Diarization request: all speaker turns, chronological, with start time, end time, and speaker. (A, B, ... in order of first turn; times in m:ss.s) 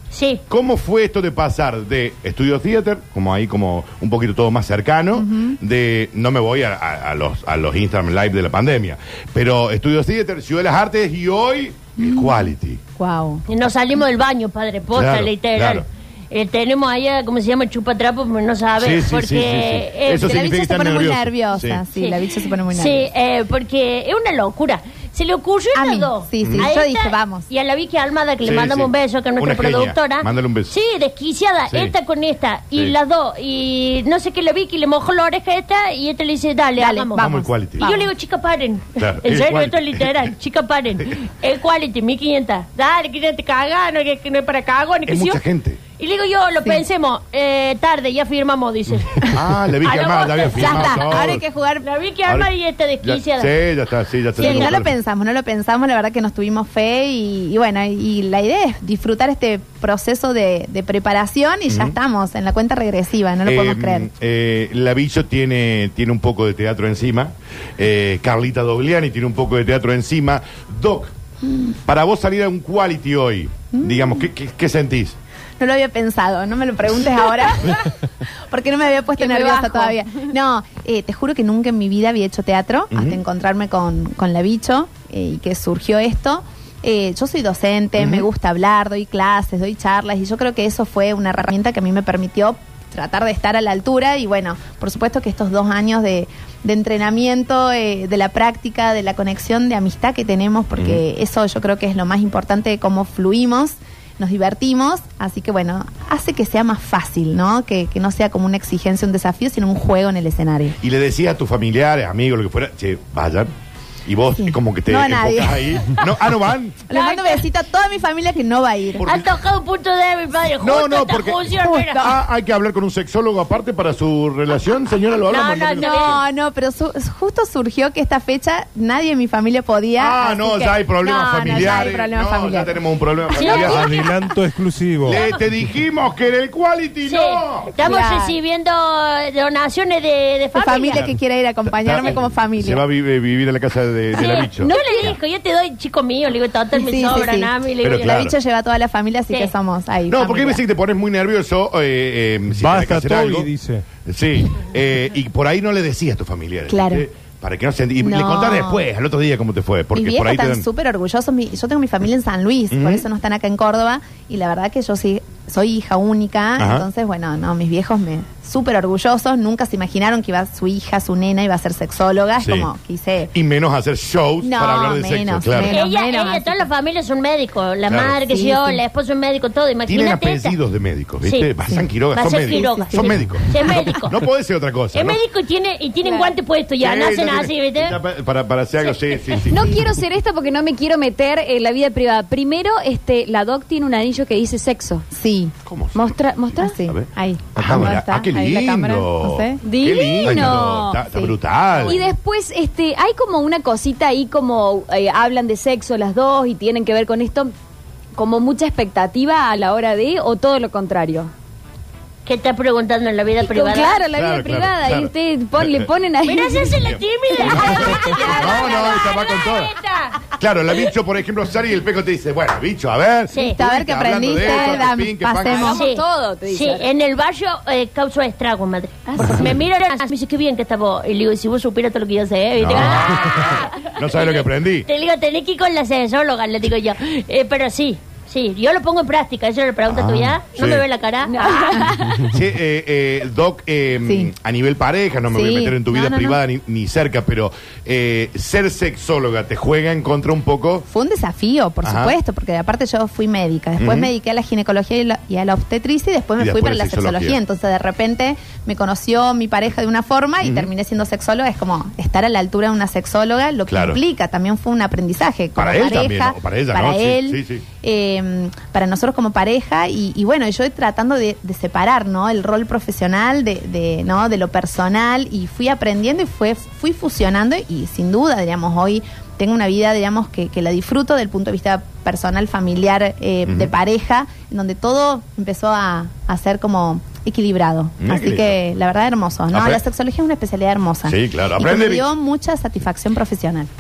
0:00.1-0:00.4 A
0:00.5-0:12.8 B
0:05.2-0:05.6 C
0:12.0-0:13.4 C
0:13.5-0:20.4 A
0:14.9-0:15.8 B
0:18.8-0:21.8 B
0:20.2-0:23.1 C
0:22.0-0:37.3 A
0:25.7-0:27.5 C
0:26.4-0:26.7 B
0:28.4-0:30.7 B
0:36.8-0:38.1 C
0:37.2-0:37.9 B
0:37.8-0:45.4 A
0:39.0-0:40.3 B
0:45.1-0:45.8 B
0:46.0-0:53.5 A
0:49.3-0:51.4 B
0:50.6-0:51.9 C
0:53.0-0:54.9 B
0:54.4-0:54.8 A
0:54.4-1:04.1 C
1:01.7-1:02.0 B
1:03.4-1:11.1 B
1:11.4-1:11.7 C
1:11.8-1:15.2 B
1:13.7-1:14.3 C
1:15.6-1:50.8 C
1:19.2-1:20.0 D
1:22.9-1:23.2 B
1:28.0-1:28.2 B
1:40.8-1:41.0 B
1:50.8-1:53.5 B
1:54.0-1:56.9 B
1:54.3-1:55.9 C
1:56.9-1:59.0 C
1:56.9-1:57.4 A
1:58.9-1:59.4 B
1:59.0-2:02.1 A
2:00.6-2:06.2 B
2:01.6-2:02.2 C
2:05.3-2:06.2 A
2:05.8-2:12.8 C
2:10.0-2:13.9 B
2:13.3-2:14.2 A
2:13.4-2:13.6 C
2:13.5-2:15.2 E
2:15.0-2:17.7 B
2:15.1-2:15.4 A
2:17.0-2:21.1 A
2:17.8-2:18.4 C
2:20.5-2:22.8 C
2:21.6-2:25.2 B
2:24.1-2:28.3 A
2:24.7-2:25.1 C
2:26.8-2:30.6 C
2:27.8-2:28.3 B
2:30.1-2:33.5 B
2:32.6-2:33.8 E
2:34.0-2:40.7 B
2:36.7-2:37.0 C
2:38.0-2:38.8 C
2:39.9-2:53.3 C
2:42.7-2:43.0 B
2:46.6-2:46.9 B
2:52.4-2:52.7 B
2:53.3-2:55.8 B
2:54.4-2:56.7 C
2:55.7-3:00.6 A
2:57.9-2:58.2 B
2:58.3-2:58.8 C
2:59.9-3:05.2 B
3:01.2-3:01.5 A
3:02.1-3:04.2 A
3:02.5-3:03.9 C
3:04.9-3:08.0 A
3:06.0-3:06.4 C
3:06.8-3:10.0 B
3:09.5-3:15.0 D
3:15.1-3:15.5 C
3:15.6-3:22.0 B
3:16.0-3:16.8 D
3:16.6-3:19.6 C
3:19.6-3:21.0 D
3:20.2-3:22.0 C
3:21.9-3:27.5 D
3:28.2-3:31.3 D
3:32.2-3:34.0 A
3:33.4-3:36.8 D
3:34.1-3:35.9 B
3:36.2-3:40.2 A
3:36.8-3:39.7 B
3:37.3-3:38.8 D
3:37.9-3:38.8 C
3:40.4-3:45.8 B
3:43.3-3:43.6 A
3:43.4-3:45.8 C
3:45.4-3:46.9 D
3:45.6-4:01.9 A
3:49.1-3:49.5 D
3:52.6-3:54.9 B
3:59.9-4:00.8 B
4:01.2-4:02.4 D
4:02.2-4:10.8 B
4:04.0-4:04.3 C
4:05.3-4:06.4 C
4:10.9-4:53.7 C
4:11.8-4:12.2 B
4:13.8-4:14.1 B
4:16.4-4:17.4 B
4:20.4-4:20.7 B
4:23.7-4:24.0 B
4:25.6-4:27.6 B
4:43.5-4:43.7 B
4:48.0-4:48.6 B
4:49.5-4:49.8 B
4:51.1-4:52.1 B